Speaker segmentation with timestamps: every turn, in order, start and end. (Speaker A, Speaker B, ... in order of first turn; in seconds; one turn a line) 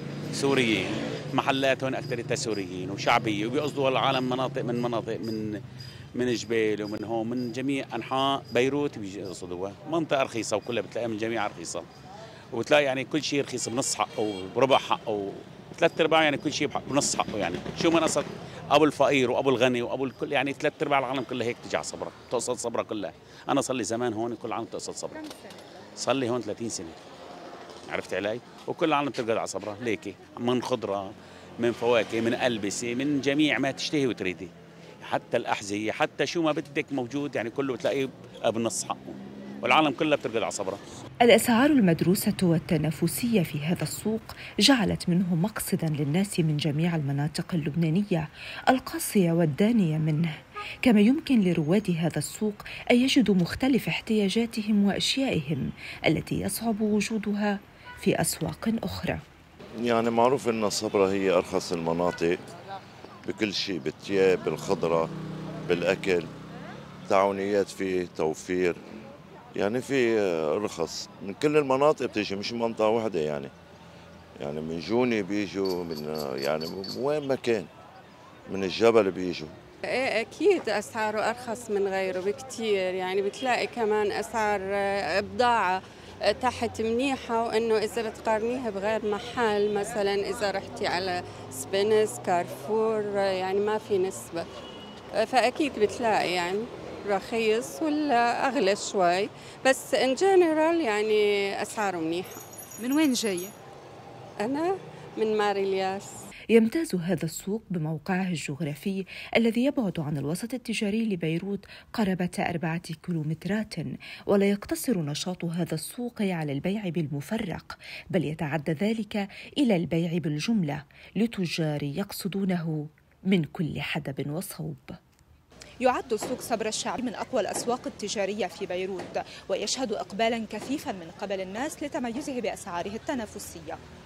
Speaker A: 0.3-5.6
Speaker A: 6.1-11.9
Speaker A: 12.5-25.2
Speaker B: 25.2-25.6
Speaker A: 26.0-27.0
Speaker A: 27.9-34.5
Speaker A: 35.0-40.8
Speaker C: 41.2-59.2
Speaker D: 59.8-62.4
Speaker D: 63.2-65.1
Speaker D: 65.7-66.3
Speaker D: 67.1-68.8
Speaker D: 69.5-73.5
Speaker D: 74.4-77.7
Speaker D: 78.5-79.5
Speaker E: 79.9-94.5
Speaker E: 95.2-102.4
Speaker B: 102.8-103.5
Speaker E: 104.4-106.1
Speaker C: 106.5-125.0
Speaker B: 125.8-133.8